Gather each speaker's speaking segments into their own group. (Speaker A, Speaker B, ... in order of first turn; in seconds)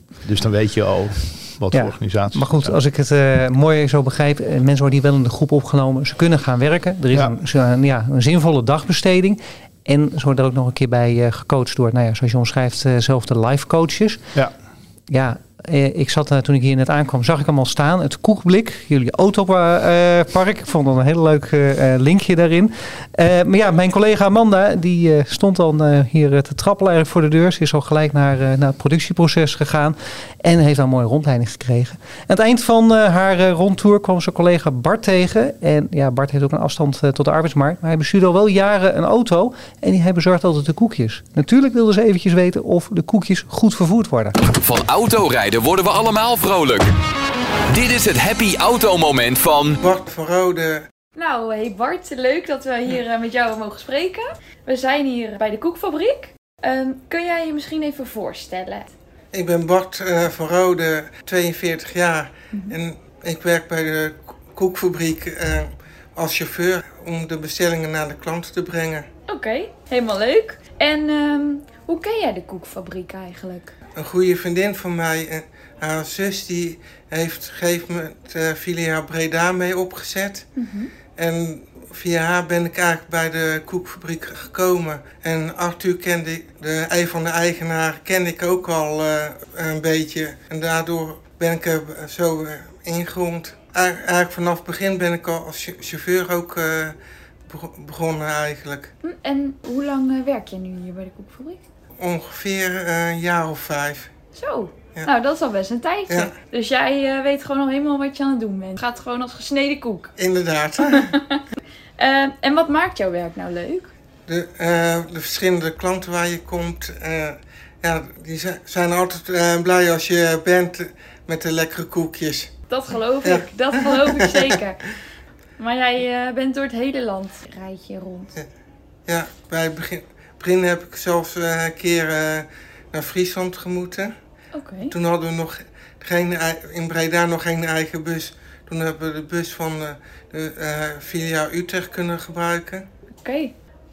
Speaker A: 0.2-2.8
Speaker B: 1.7-14.2, 15.1-44.4
Speaker C: 44.5-46.9, 47.7-49.8
Speaker D: 49.8-50.9, 59.3-69.1, 74.0-80.5, 81.2-97.0, 97.5-98.9, 102.0-104.1, 110.2-111.1, 114.3-122.5, 123.2-124.4, 129.1-134.1, 134.9-142.9
Speaker E: 51.1-58.9, 62.5-62.8, 69.3-73.7, 80.6-80.9, 99.0-101.6, 104.3-110.1, 110.9-111.4, 112.0-113.9, 122.7-124.9, 125.6-128.3, 134.5-134.9, 143.2-143.5